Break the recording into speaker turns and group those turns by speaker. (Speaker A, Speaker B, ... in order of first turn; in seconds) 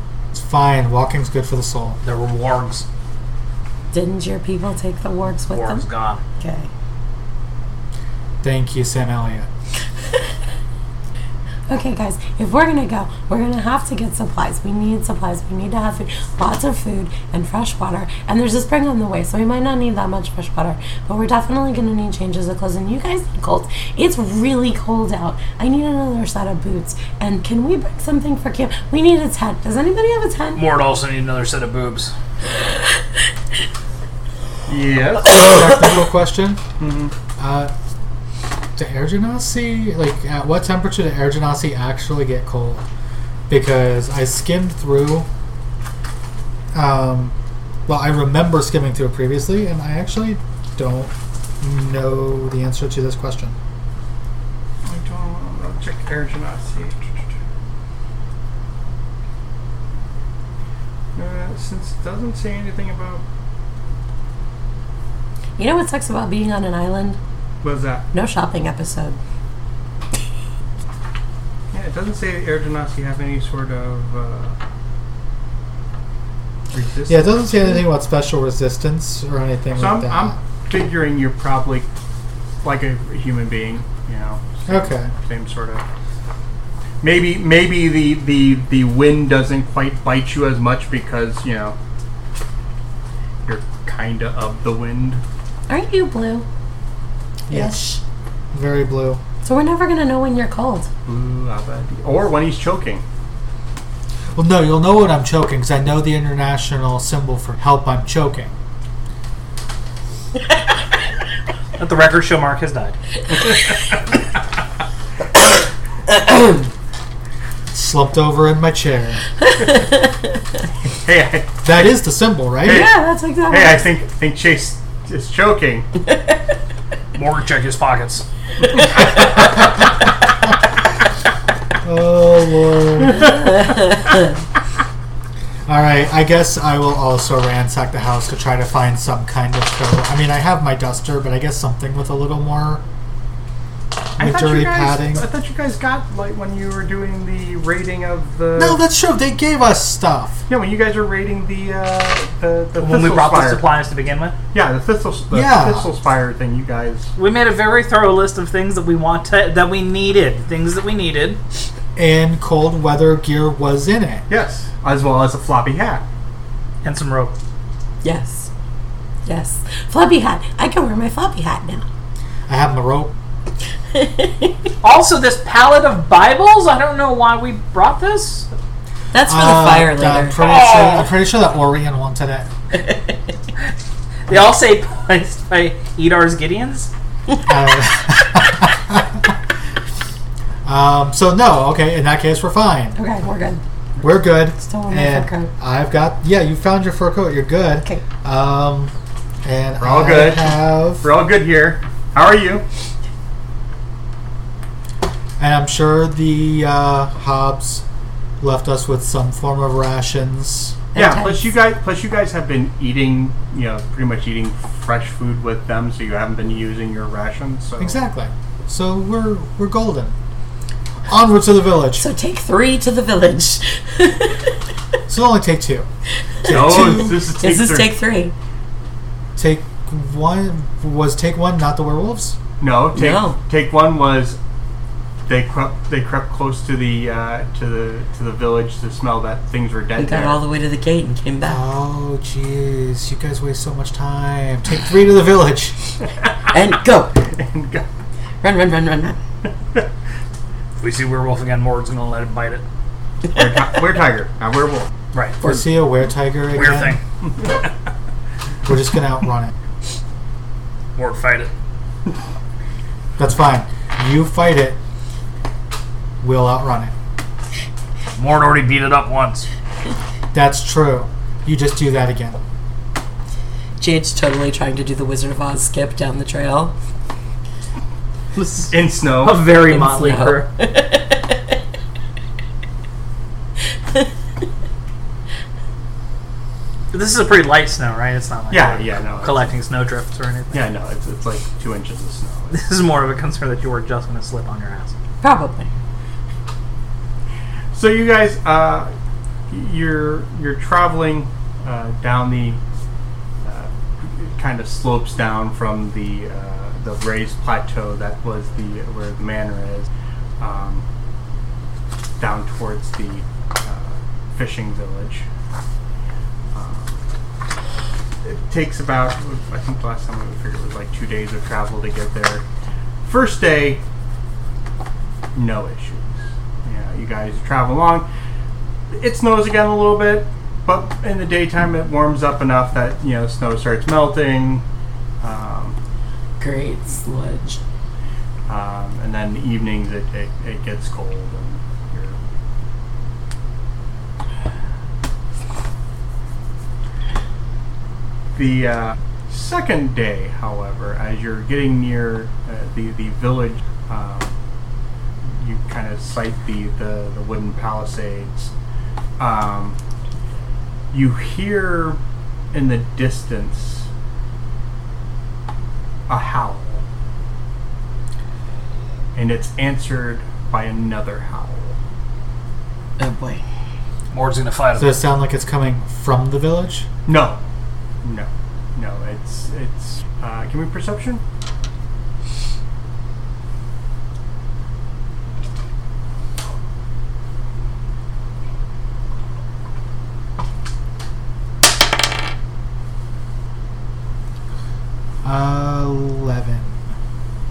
Speaker A: 0.3-2.0, 8.4-9.5, 35.2-36.6, 37.4-37.7, 38.8-42.8, 43.5-45.3, 46.7-47.3, 47.9-53.5, 77.1-80.4, 84.7-85.1, 97.5-98.0, 98.5-99.2, 104.3-108.5, 117.7-119.2, 121.6-122.9, 131.8-133.5, 135.7-142.8, 144.2-145.2, 148.6-150.4, 155.3-155.8, 161.9-164.2, 172.5-173.1, 179.2-182.5, 187.4-189.3, 190.6-193.0, 194.0-201.1, 205.4-207.8, 208.4-210.8, 217.8-220.1, 221.1-222.1, 225.1-225.9, 226.4-227.2, 229.3-232.4, 241.4-245.8, 255.4-257.0, 258.6-259.5, 263.2-264.8, 266.2-266.9, 270.3-272.4, 374.8-376.9, 395.2-396.7
Speaker B: 2.0-2.8, 5.5-6.2, 30.5-32.1, 111.8-113.0, 127.1-128.2, 152.8-154.4, 157.2-161.4, 166.8-167.3, 174.8-178.5, 180.3-181.1, 184.3-186.9, 250.8-252.6, 255.1-255.4, 256.5-257.0, 260.9-261.5, 268.1-269.5, 278.4-280.5, 286.9-290.6, 292.5-294.9, 374.1-375.0
Speaker C: 3.9-5.8, 6.4-6.7, 11.7-30.6, 65.6-67.2, 68.1-69.2, 95.7-96.5, 97.5-98.0, 99.4-100.9, 122.7-123.8, 168.0-168.5, 169.2-171.8, 174.0-174.5, 179.1-180.4, 192.9-193.6, 194.6-195.5, 210.9-211.5, 221.9-224.6, 226.8-228.3, 232.9-233.4, 239.9-241.6, 246.5-247.2, 248.4-249.2, 273.8-276.7, 279.6-281.4, 295.2-295.7, 336.4-337.6, 373.0-373.4
Speaker D: 34.7-35.5, 36.8-37.1, 54.8-57.3, 61.1-63.2, 67.6-68.1, 71.7-74.6, 76.7-77.8, 79.8-81.9, 82.6-85.8, 87.0-91.8, 93.5-95.2, 101.0-103.0, 120.9-121.5, 122.6-125.8, 144.2-148.8, 150.5-153.6, 154.5-157.1, 164.3-166.0, 199.8-202.6, 210.9-218.0, 226.4-227.9, 232.6-234.4, 235.3-240.4, 247.3-247.8, 253.3-254.9, 278.7-279.5, 288.5-289.5, 290.5-292.5, 297.7-298.9, 299.5-302.6, 303.4-310.9, 312.2-315.3, 316.5-317.0, 318.2-322.4, 323.0-323.8, 325.3-328.1, 328.9-334.6, 335.2-335.8, 338.5-342.2, 348.3-354.3, 355.2-358.5, 359.2-359.8, 360.9-362.0, 362.5-363.9, 366.1-366.8, 369.1-371.8, 377.1-377.4, 378.0-381.2